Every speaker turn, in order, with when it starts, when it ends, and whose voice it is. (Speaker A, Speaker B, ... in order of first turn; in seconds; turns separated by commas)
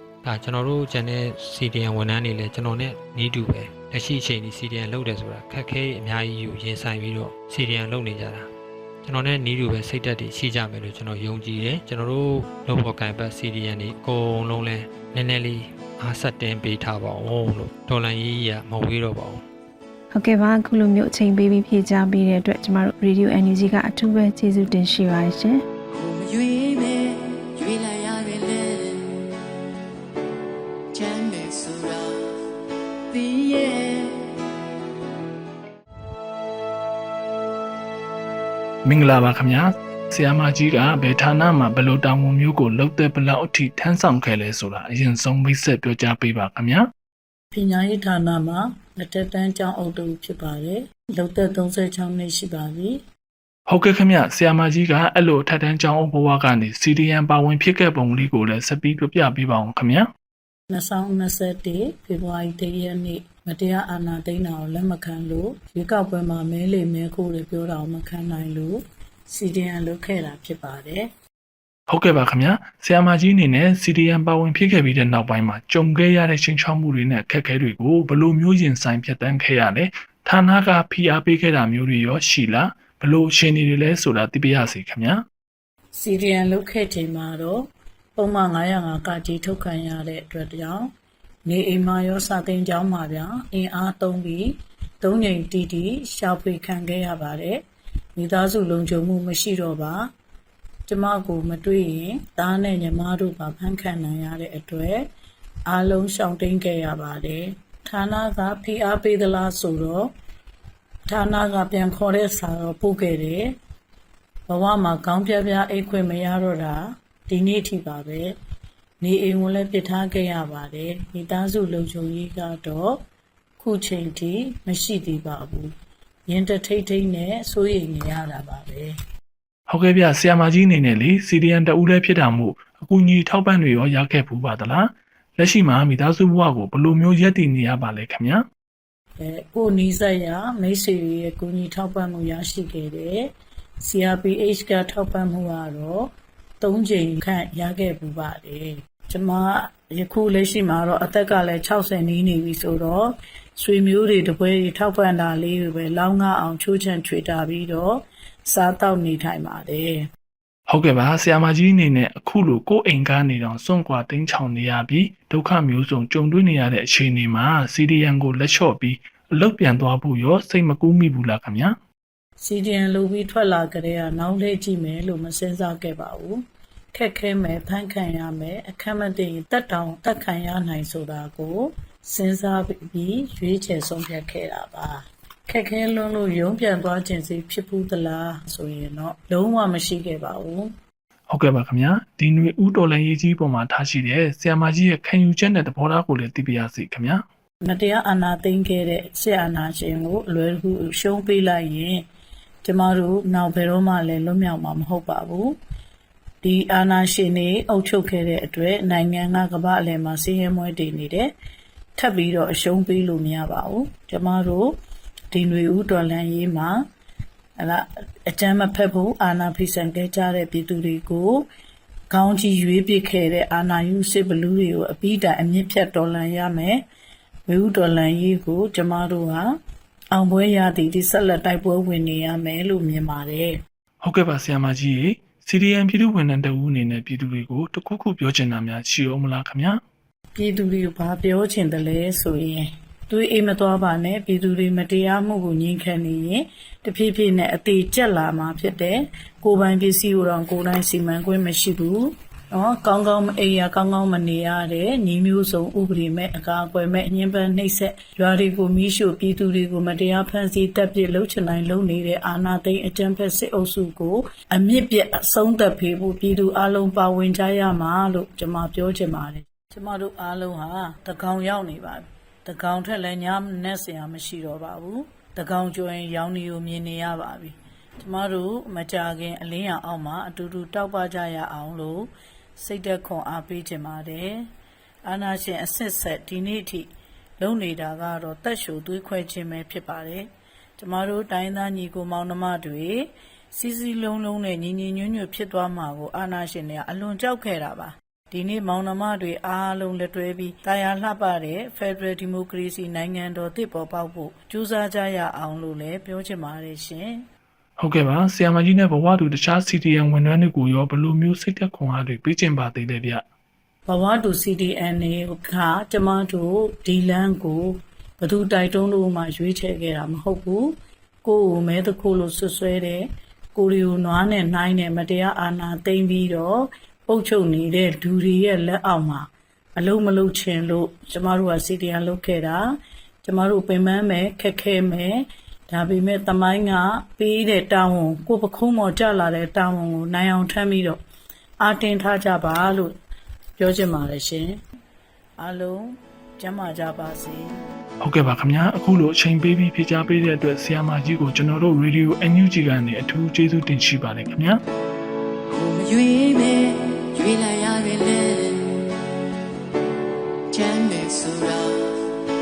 Speaker A: 0.2-8.5, Speaker A: 9.0-19.4, Speaker B: 20.1-25.6, Speaker C: 25.9-29.3, Speaker C: 30.9-32.2, Speaker C: 33.1-34.2, Speaker D: 38.9-46.9, Speaker E: 47.5-53.0, Speaker D: 53.7-60.1, Speaker E: 60.7-71.1, Speaker D: 71.9-85.2, Speaker E: 85.9-90.9, Speaker E: 91.5-97.6, Speaker E: 98.2-100.1, Speaker E: 100.9-105.1, Speaker E: 105.7-110.1, Speaker E: 111.1-113.5, Speaker E: 114.5-118.3, Speaker E: 119.0-123.0, Speaker E: 123.6-125.7, Speaker E: 126.3-128.9, Speaker D: 129.7-138.4, Speaker E: 139.2-143.3, Speaker E: 143.8-160.1, Speaker D: 160.7-171.8, Speaker E: 172.4-176.4, Speaker E: 176.9-190.7, Speaker D: 191.3-197.2, Speaker E: 197.6-202.1, Speaker E: 202.6-205.6, Speaker E: 206.4-211.3, Speaker E: 212.0-214.7, Speaker E: 215.3-216.8, Speaker E: 217.6-221.4, Speaker E: 222.1-226.8, Speaker E: 227.5-229.6, Speaker E: 230.1-233.6, Speaker D: 234.0-239.8, Speaker E: 240.3-284.5, Speaker E: 285.1-307.2, Speaker D: 307.8-313.2, Speaker E: 313.9-341.0, Speaker E: 341.6-343.0, Speaker E: 343.6-344.6, Speaker E: 345.4-347.6, Speaker D: 348.0-354.6, Speaker C: 355.5-358.9, Speaker C: 360.5-361.8